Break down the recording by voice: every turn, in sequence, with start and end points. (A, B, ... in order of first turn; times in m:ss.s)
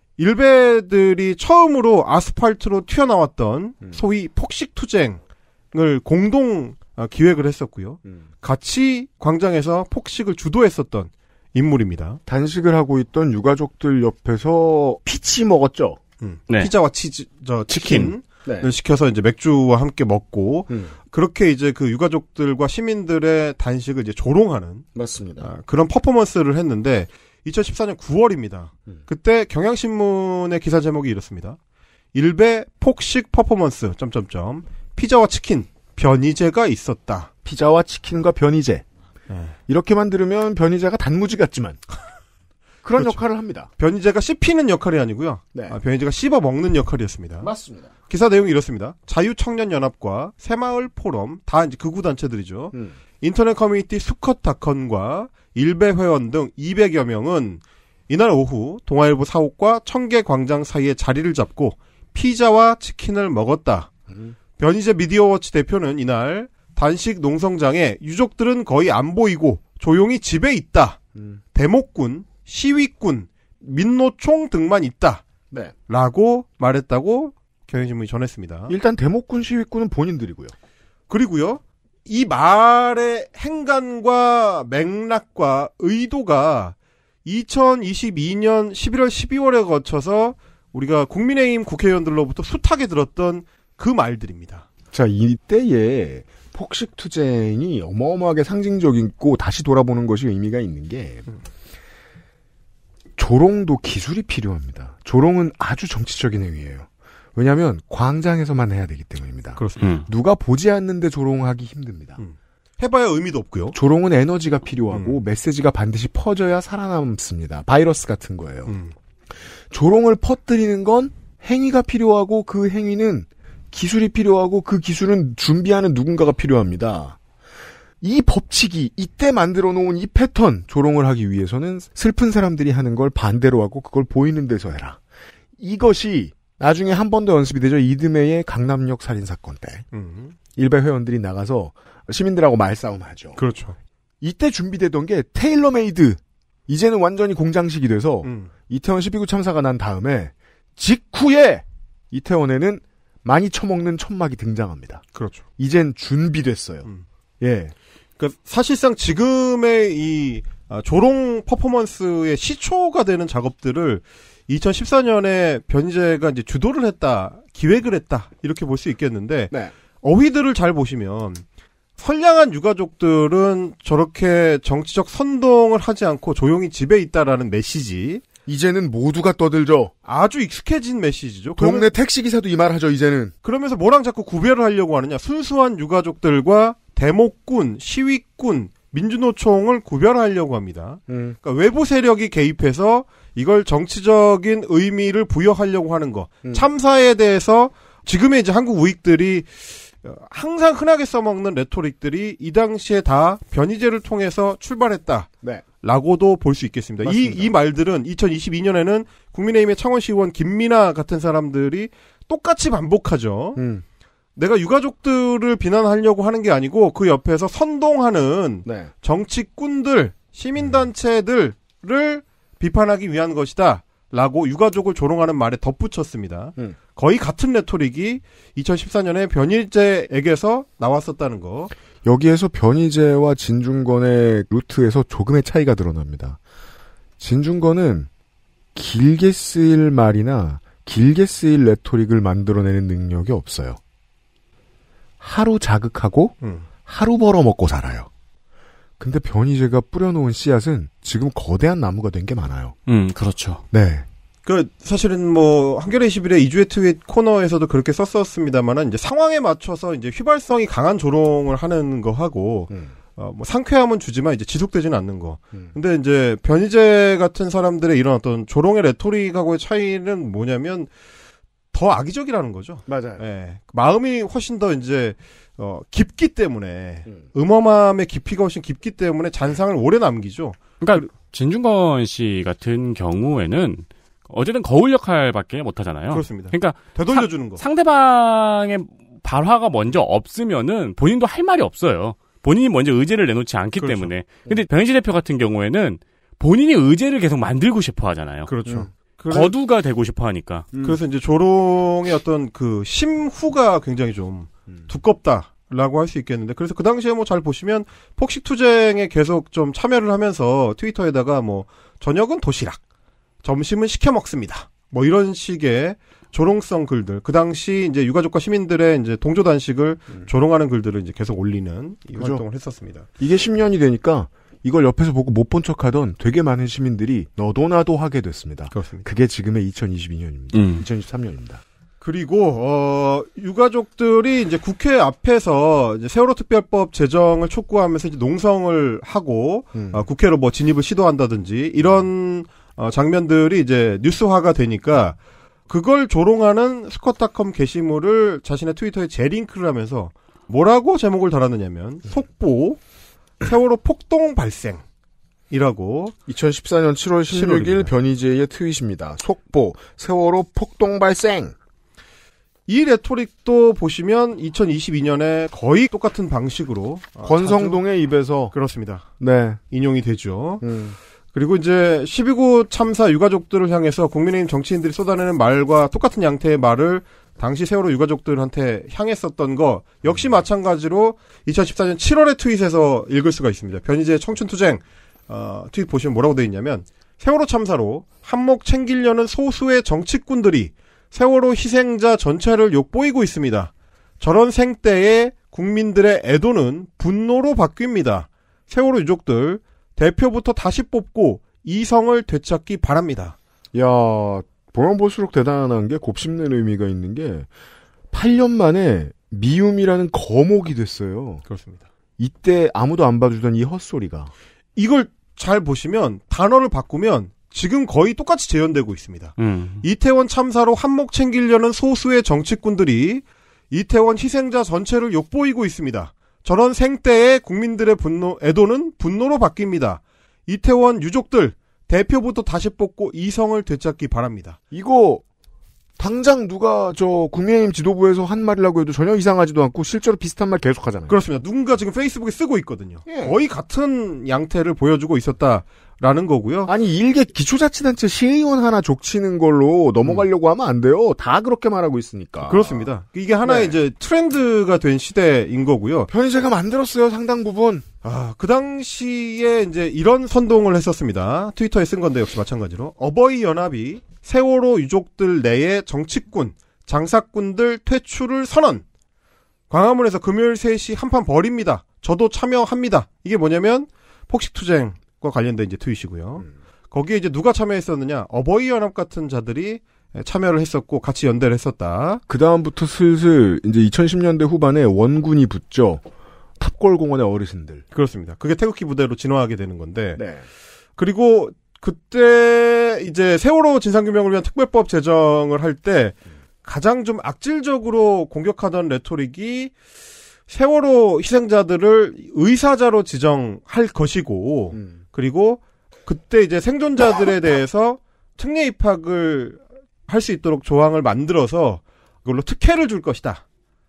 0:00.2-0:05.2 A
0:05.7-0:12.2 A
0:12.2-0:16.0 B
0:16.2-0:24.8 A
0:17.7-0:18.1 C
0:24.9-0:25.5 B
0:25.4-0:31.6 A
0:32.1-0:37.3 A
0:37.4-0:38.8 B
0:39.3-0:39.5 A
0:39.7-0:41.8 B
0:42.8-0:43.7 B
0:43.8-0:47.5 A
0:47.4-0:47.9 B
0:48.1-1:03.9 A
1:04.6-1:11.0 A
1:11.5-1:15.2 A
1:15.9-1:18.7 A
1:18.7-1:20.5 B
1:21.1-1:34.7 A
1:34.9-1:41.2 B
1:43.2-1:52.2 B
1:49.6-1:49.9 A
1:52.2-1:53.8 A
1:53.7-1:58.7 B
1:54.9-1:55.2 A
1:58.7-1:58.9 A
1:59.7-2:07.2 B
2:08.0-2:15.0 B
2:15.6-2:19.8 B
2:19.9-2:20.3 A
2:20.6-2:23.4 B
2:23.4-2:23.8 A
2:24.2-2:35.0 B
2:28.2-2:28.5 A
2:35.1-2:35.4 A
2:35.6-2:36.9 B
2:37.4-2:37.7 B
2:38.2-2:51.4 A
2:52.0-2:58.2 A
2:58.4-2:59.9 B
3:00.0-3:01.9 A
3:01.6-3:03.3 B
3:03.4-3:25.3 A
3:11.1-3:11.4 B
3:25.8-3:33.6 A
3:27.0-3:27.5 B
3:33.6-3:33.8 B
3:34.4-3:51.7 A
3:38.6-3:38.9 B
3:52.0-3:56.4 B
3:57.2-3:58.1 B
3:58.7-4:03.8 B
4:05.2-4:08.1 B
4:09.0-4:12.8 B
4:12.9-4:13.6 C
4:13.7-4:14.0 B
4:14.4-4:30.9 A
4:31.7-4:41.0 A
4:32.9-4:33.2 B
4:40.8-4:58.5 C
4:46.1-4:47.6 A
4:53.8-4:54.1 A
4:58.4-4:59.5 A
4:59.3-5:00.6 C
5:00.7-5:01.0 B
5:00.8-5:12.8 A
5:13.4-5:23.0 A
5:22.1-5:22.4 B
5:23.2-5:31.6 B
5:28.7-5:29.0 A
5:30.5-5:30.8 C
5:32.0-5:45.2 A
5:39.7-5:40.0 B
5:45.7-5:52.8 A
5:53.4-5:54.8 A
5:55.5-5:56.2 A
5:56.3-6:01.5 B
5:57.3-5:57.9 A
6:02.7-6:07.8 A
6:07.2-6:08.5 B
6:08.5-6:09.1 A
6:09.2-6:09.6 B
6:09.7-6:10.6 A
6:10.6-6:11.0 B
6:11.3-6:43.4 A
6:43.7-6:47.5 B
6:48.1-6:51.4 B
6:51.5-6:51.8 A
6:52.2-6:54.3 B
6:54.8-7:14.6 A
6:59.4-6:59.8 C
7:14.7-7:15.2 B
7:16.0-7:21.2 B
7:21.1-7:26.7 A
7:23.1-7:23.4 B
7:26.7-7:32.9 B
7:32.4-7:36.1 A
7:33.4-7:33.8 B
7:36.1-7:37.8 B
7:38.0-7:48.8 A
7:49.7-8:02.2 A
8:02.3-8:06.0 B
8:06.6-8:07.8 B
8:07.9-8:10.2 A
8:10.2-8:10.4 B
8:11.0-8:19.7 A
8:20.5-8:33.4 A